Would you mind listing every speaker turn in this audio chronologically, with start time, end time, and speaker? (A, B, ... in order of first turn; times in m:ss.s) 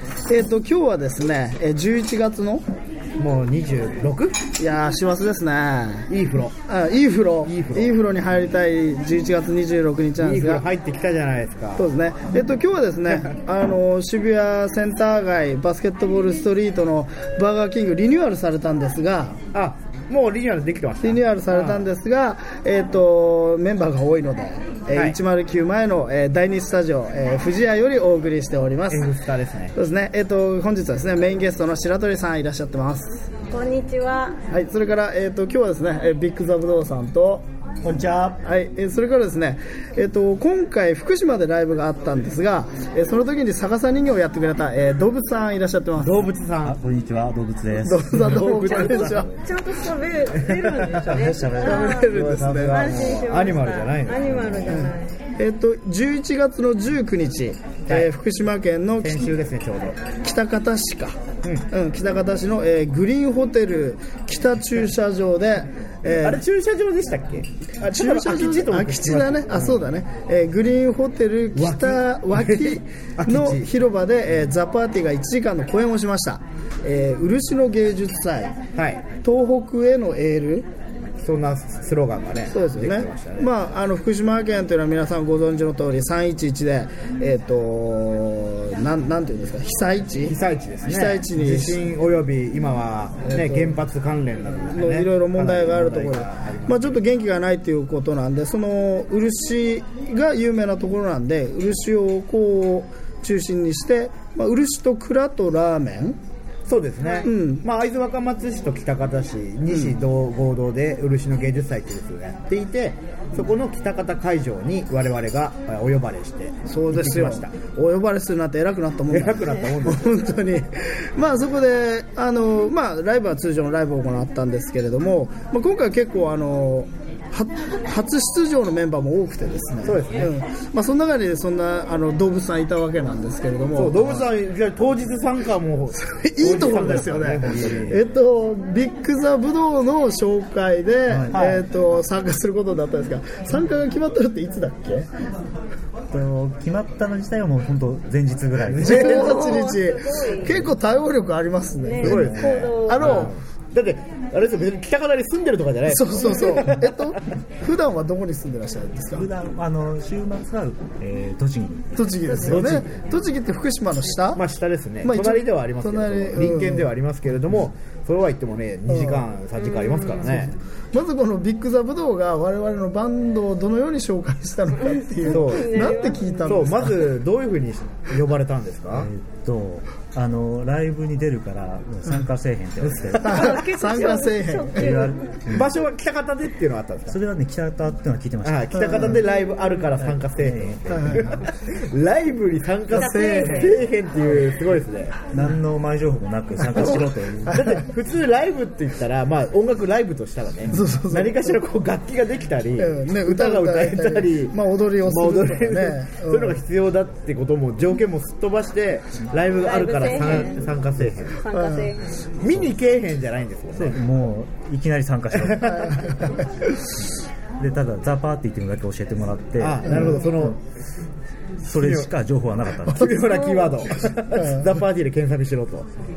0:00.3-0:02.6 A
0:03.2-0:04.4 B
0:04.6-0:06.1 A
0:06.1-0:06.6 B
0:06.7-0:10.7 A
0:07.4-0:08.0 B
0:10.2-0:11.9 B
0:11.8-0:19.4 A
0:19.5-0:21.8 B
0:21.0-0:29.1 A
0:24.9-0:25.2 B
0:28.9-0:29.7 B
0:29.8-0:33.3 A
0:33.5-0:34.4 C
0:34.5-0:46.3 A
0:46.0-0:46.8 B
0:46.6-0:49.0 D
0:47.8-0:49.3 A
0:48.2-0:49.4 B
0:48.7-0:55.2 C
0:50.3-0:54.8 B
0:51.0-0:52.0 D
0:51.7-0:53.1 A
0:54.7-0:59.3 A
0:59.0-1:00.0 B
1:00.2-1:01.2 A
1:01.7-1:06.4 A
1:06.0-1:09.8 B
1:07.8-1:18.6 A
1:11.6-1:13.7 B
1:18.7-1:19.0 B
1:19.2-1:20.7 A
1:21.2-1:23.5 B
1:22.5-1:31.8 A
1:30.2-1:36.9 B
1:33.2-1:33.8 A
1:34.7-1:46.2 A
1:46.7-1:57.5 B
1:47.0-1:47.3 C
1:47.2-1:47.6 A
1:56.7-2:14.2 A
1:59.1-2:00.1 B
2:09.8-2:10.3 B
2:13.7-2:18.0 B
2:15.9-2:25.1 A
2:21.1-2:21.6 D
2:21.3-2:21.6 B
2:26.1-2:29.3 D
2:28.6-2:29.6 B
2:28.8-2:33.4 A
2:28.9-2:30.5 C
2:31.8-2:33.3 C
2:32.0-2:37.2 B
2:32.0-2:32.4 D
2:35.9-2:39.3 A
2:39.1-2:42.4 D
2:41.9-2:44.4 A
2:42.2-2:42.7 C
2:42.4-2:42.9 B
2:44.3-2:50.5 B
2:45.0-2:46.9 A
2:48.9-2:49.3 A
2:49.6-2:50.3 C
2:50.9-2:57.1 A
2:54.8-2:56.8 C
2:55.2-2:59.1 B
2:58.9-3:03.5 D
3:02.8-3:03.2 B
3:03.2-3:05.0 A
3:03.2-3:05.3 C
3:04.8-3:05.8 D
3:05.5-3:07.2 B
3:07.1-3:09.2 D
3:08.4-3:15.2 B
3:08.7-3:09.2 A
3:10.0-3:11.4 D
3:10.9-3:11.3 A
3:12.9-3:13.8 A
3:12.9-3:13.8 C
3:15.3-3:17.8 D
3:17.4-3:31.4 B
3:20.7-3:21.6 A
3:22.8-3:26.6 A
3:29.5-3:30.8 C
3:31.4-3:32.2 C
3:31.5-3:31.9 A
3:32.4-3:34.0 B
3:33.7-3:36.1 D
3:35.3-3:36.0 B
3:35.7-3:36.8 A
3:37.6-3:40.6 D
3:39.6-3:40.6 B
3:39.8-3:40.3 A
3:41.6-3:43.4 D
3:41.7-3:42.1 B
3:42.8-3:45.9 B
3:43.2-3:43.8 C
3:44.1-3:44.7 A